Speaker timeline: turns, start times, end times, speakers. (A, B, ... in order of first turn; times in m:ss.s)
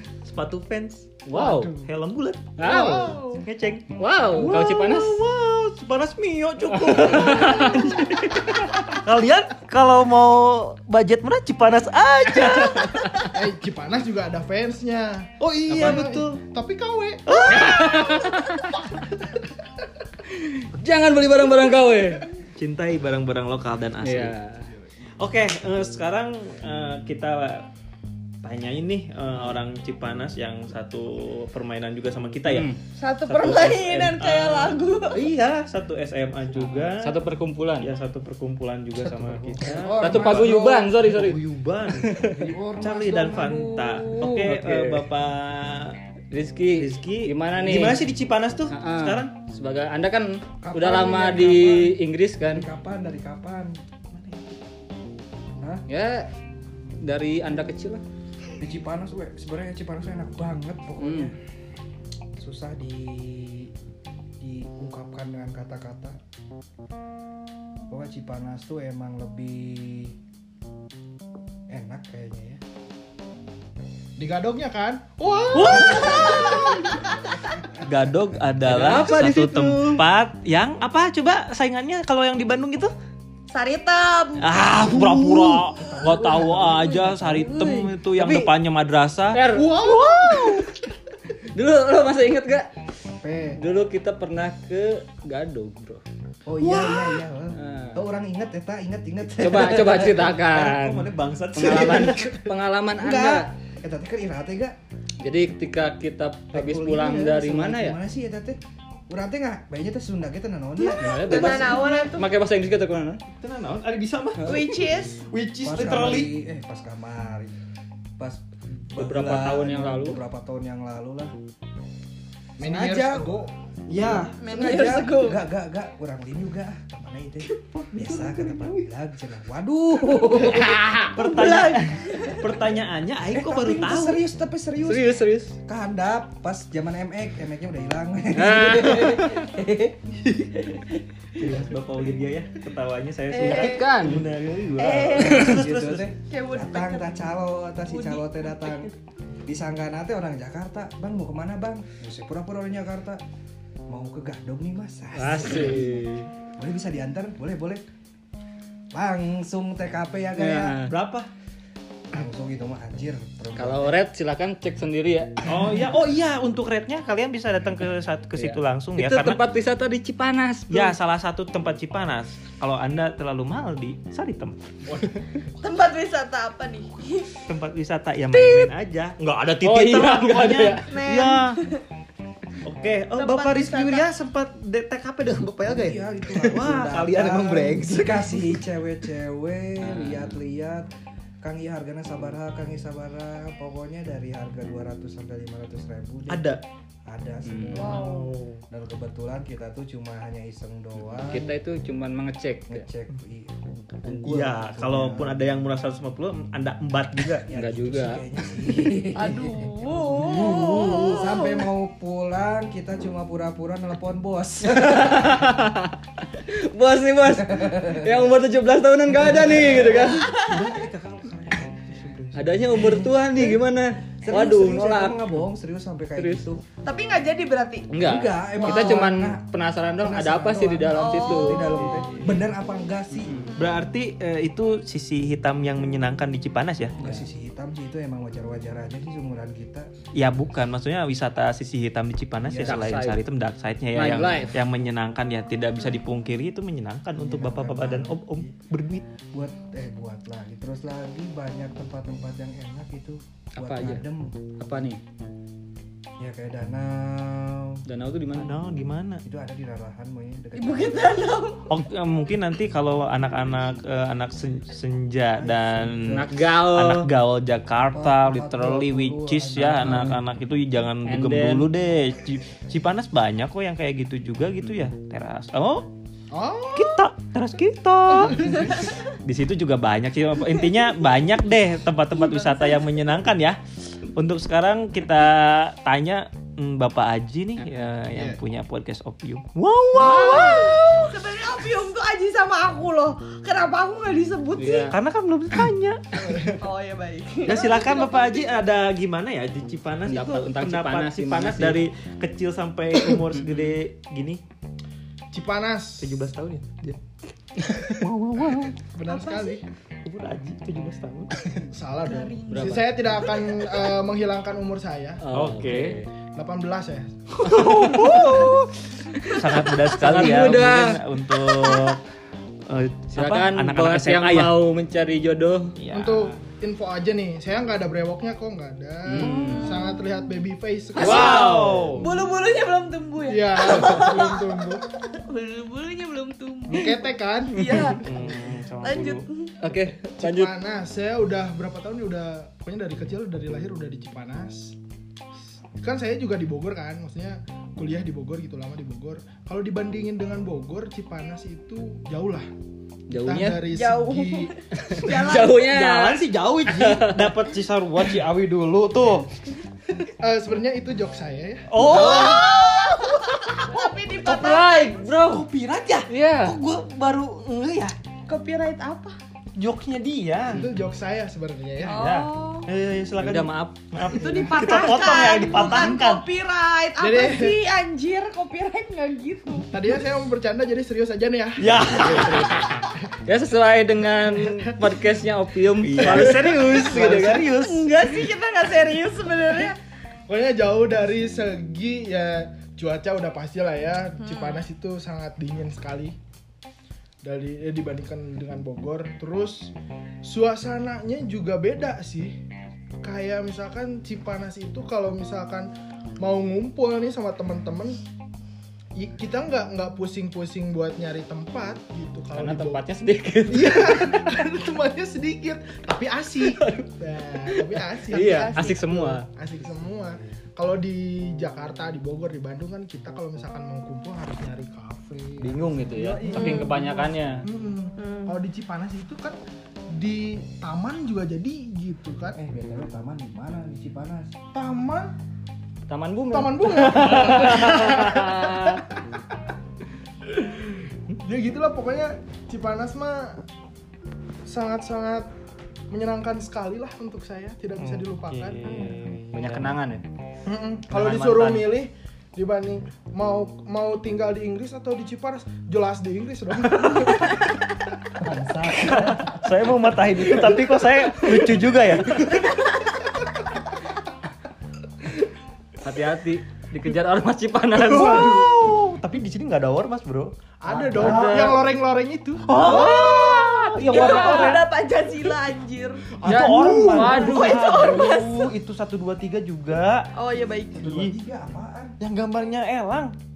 0:00.2-0:01.2 A
0:01.2-0:01.7 B
0:01.3-0:01.9 C
0:01.8-0:02.9 A
0:02.6-0:03.2 B
0:02.6-0:03.4 C
0:03.4-0:13.3 A
0:04.0-0:05.2 B
0:06.7-0:08.0 B
0:12.4-0:13.2 B
0:13.3-0:19.5 C
0:15.4-0:16.4 A
0:17.3-0:18.3 A
0:17.5-0:18.6 B
0:20.3-0:22.3 B
0:22.6-0:24.4 A
0:24.0-0:24.7 B
0:25.2-0:27.7 A
0:28.4-0:32.7 A
0:32.5-0:32.8 B
0:33.0-0:35.2 D
0:33.3-0:37.2 A
0:36.5-0:37.9 B
0:37.8-0:42.2 A
0:38.9-0:40.9 E
0:40.0-0:42.4 B
0:42.2-0:44.3 E
0:42.8-0:46.0 A
0:44.2-0:45.1 B
0:46.3-0:48.0 B
0:46.8-0:49.3 A
0:48.7-0:52.6 B
0:50.6-0:53.8 E
0:54.1-0:54.6 A
0:55.9-0:56.3 B
0:57.0-0:58.0 B
0:58.6-1:01.4 E
1:01.0-1:01.3 B
1:02.4-1:03.7 E
1:04.4-1:06.2 E
1:07.9-1:10.1 E
1:11.7-1:12.6 E
1:14.2-1:17.0 C
1:15.5-1:16.6 A
1:15.9-1:17.2 D
1:17.8-1:22.9 A
1:18.6-1:20.0 B
1:23.5-1:25.0 D
1:24.4-1:29.5 A
1:26.0-1:27.8 E
1:28.1-1:28.5 B
1:29.3-1:30.6 B
1:29.5-1:30.7 C
1:31.5-1:32.7 B
1:33.2-1:33.6 E
1:33.6-1:36.0 B
1:36.4-1:40.3 E
1:36.6-1:37.2 A
1:37.5-1:38.0 B
1:39.4-1:43.5 B
1:40.4-1:42.5 A
1:43.0-1:44.8 E
1:45.2-1:48.0 B
1:46.5-1:48.6 E
1:49.1-1:51.9 E
1:50.8-1:52.3 D
1:50.9-1:53.2 B
1:53.3-1:56.3 A
1:54.4-1:54.7 B
1:54.4-1:55.2 D
1:55.6-1:57.5 E
1:58.2-2:01.3 E
1:58.9-2:00.2 B
2:02.6-2:03.4 C
2:02.6-2:10.8 E
2:03.9-2:04.3 A
2:04.4-2:05.4 D
2:07.6-2:08.9 A
2:10.1-2:11.1 B
2:11.1-2:14.2 A
2:11.2-2:12.5 D
2:13.3-2:20.2 E
2:14.8-2:15.6 B
2:18.3-2:19.5 B
2:20.3-2:20.6 A
2:21.4-2:26.1 A
2:23.3-2:24.0 D
2:23.4-2:24.2 B
2:24.8-2:25.6 D
2:25.1-2:28.9 E
2:26.3-2:27.2 D
2:27.8-2:28.9 D
2:29.4-2:33.2 E
2:33.9-2:36.0 E
2:35.1-2:36.3 B
2:36.6-2:37.8 E
2:38.9-2:40.8 E
2:40.4-2:40.9 B
2:40.8-2:41.3 A
2:42.1-2:44.0 E
2:43.6-2:45.4 B
2:45.4-2:49.4 A
2:48.4-2:51.0 B
2:50.7-2:54.6 A
2:55.6-2:57.4 D
2:57.5-3:01.6 A
2:59.6-3:00.9 B
3:00.9-3:01.8 D
3:02.6-3:08.6 A
3:03.2-3:04.1 D
3:05.7-3:10.9 E
3:09.8-3:10.4 B
3:11.4-3:21.5 E
3:16.3-3:16.6 A
3:17.4-3:17.9 B
3:17.7-3:18.4 D
3:17.9-3:18.3 C
3:21.3-3:22.9 B
3:22.7-3:25.4 E
3:24.2-3:27.5 A
3:27.4-3:35.5 E
3:27.5-3:28.2 B
3:29.1-3:31.6 D
3:34.6-3:40.3 B
3:37.3-3:38.3 E
3:39.2-3:40.0 E
3:40.0-3:42.8 A
3:40.0-3:40.7 D
3:42.3-3:45.3 B
3:42.7-3:43.6 E
3:44.2-3:46.6 E
3:46.2-3:46.4 B
3:46.8-3:47.9 D
3:47.9-3:52.4 B
3:48.0-3:49.4 E
3:48.5-3:49.0 D
3:50.0-3:53.5 E
3:50.9-3:51.8 D
3:53.2-3:53.5 B
3:53.5-3:56.9 A
3:53.6-3:53.8 D
3:57.0-3:59.9 E
4:00.1-4:09.0 A
4:02.5-4:02.9 E
4:02.5-4:03.2 B
4:03.9-4:04.6 B
4:07.2-4:08.6 E
4:09.2-4:14.3 E
4:13.6-4:14.0 B
4:14.6-4:15.0 B
4:16.2-4:17.8 E
4:17.8-4:18.5 B
4:18.3-4:19.2 A
4:19.2-4:21.1 E
4:20.5-4:21.7 D
4:21.6-4:35.9 A
4:25.4-4:26.3 E
4:26.1-4:27.1 B
4:27.9-4:30.2 E
4:29.5-4:30.2 B
4:31.0-4:31.7 B
4:36.3-4:37.1 C
4:36.7-4:43.6 A
4:38.2-4:38.7 C
4:38.6-4:38.9 D
4:42.1-4:42.9 D
4:44.1-4:50.8 A
4:47.6-4:47.8 B
4:49.9-4:54.9 D
4:54.6-4:54.9 B
4:54.9-4:56.3 A
4:56.2-4:56.5 C
4:56.4-4:58.5 D
4:57.4-5:04.4 A
5:00.1-5:01.8 B
5:03.4-5:03.8 B
5:05.3-5:06.3 C
5:06.0-5:07.0 A
5:07.7-5:08.8 A
5:08.8-5:09.6 C
5:09.1-5:09.6 D
5:10.0-5:11.6 A
5:11.7-5:15.2 C
5:12.0-5:13.7 D
5:12.5-5:12.8 B
5:15.2-5:16.1 B
5:15.3-5:16.0 A
5:16.3-5:17.3 C
5:17.4-5:18.7 A
5:17.5-5:18.4 B
5:17.6-5:18.6 D
5:19.2-5:21.0 B
5:19.3-5:22.0 A
5:21.6-5:21.9 D
5:22.7-5:24.5 A
5:23.1-5:25.8 B
5:25.8-5:26.3 A
5:25.9-5:31.9 C
5:29.0-5:29.8 B
5:29.2-5:30.0 D
5:31.0-5:38.0 D
5:31.0-5:31.8 B
5:31.0-5:32.2 A
5:33.3-5:34.8 C
5:36.7-5:38.3 C
5:38.0-5:39.3 A
5:38.8-5:39.6 D
5:39.6-5:40.5 B
5:40.2-5:44.7 C
5:45.8-5:52.5 C
5:53.1-5:53.6 B
5:53.1-5:54.5 C
5:53.7-5:55.6 D
5:54.8-5:57.3 B
5:55.5-5:59.3 A
6:00.2-6:02.4 C
6:01.7-6:03.6 A
6:01.8-6:05.0 D
6:04.2-6:05.4 B
6:04.3-6:07.9 A
6:06.1-6:06.5 B
6:08.3-6:09.2 D
6:09.6-6:10.6 A
6:10.5-6:12.0 C
6:11.8-6:12.7 D
6:12.0-6:16.2 A
6:13.2-6:13.8 B
6:14.1-6:19.8 D
6:17.0-6:17.6 C
6:19.7-6:21.8 C
6:21.6-6:22.8 A
6:21.9-6:27.5 B
6:24.2-6:24.8 C
6:25.8-6:27.9 A
6:26.0-6:26.6 C
6:27.6-6:29.8 D
6:30.3-6:36.2 C
6:34.2-6:34.6 D
6:37.2-6:39.7 C
6:40.2-6:42.4 C
6:43.0-6:48.0 C
6:49.0-6:52.8 C
6:52.3-6:54.3 B
6:53.5-7:09.4 C
6:56.4-6:56.9 B
6:57.5-6:59.2 B
6:58.1-6:58.8 D
7:05.4-7:07.4 B
7:06.0-7:06.7 E
7:06.3-7:06.7 D
7:08.0-7:08.4 D
7:09.9-7:12.4 C
7:12.2-7:14.3 E
7:14.5-7:15.1 C
7:15.9-7:18.8 B
7:16.3-7:19.2 C
7:20.2-7:23.4 C
7:24.5-7:25.3 C
7:25.9-7:28.8 C
7:27.8-7:29.7 A
7:28.6-7:28.9 D
7:29.3-7:30.0 B
7:30.4-7:37.6 C
7:30.9-7:31.7 B
7:38.2-7:39.4 E
7:38.8-7:42.4 A
7:40.2-7:41.5 B
7:45.8-7:48.4 B
7:47.7-7:50.3 A
7:48.0-7:48.4 C
7:50.6-7:52.8 C
7:50.7-7:51.7 B
7:50.9-7:51.4 E
7:51.0-7:51.4 A
7:52.4-7:54.6 A
7:52.6-7:56.1 D
7:56.2-7:57.4 C
7:56.2-8:00.1 A
7:56.2-7:58.2 B
7:57.0-7:58.5 D
8:00.1-8:00.9 D
8:00.7-8:02.0 E
8:00.8-8:01.1 A
8:02.0-8:03.1 A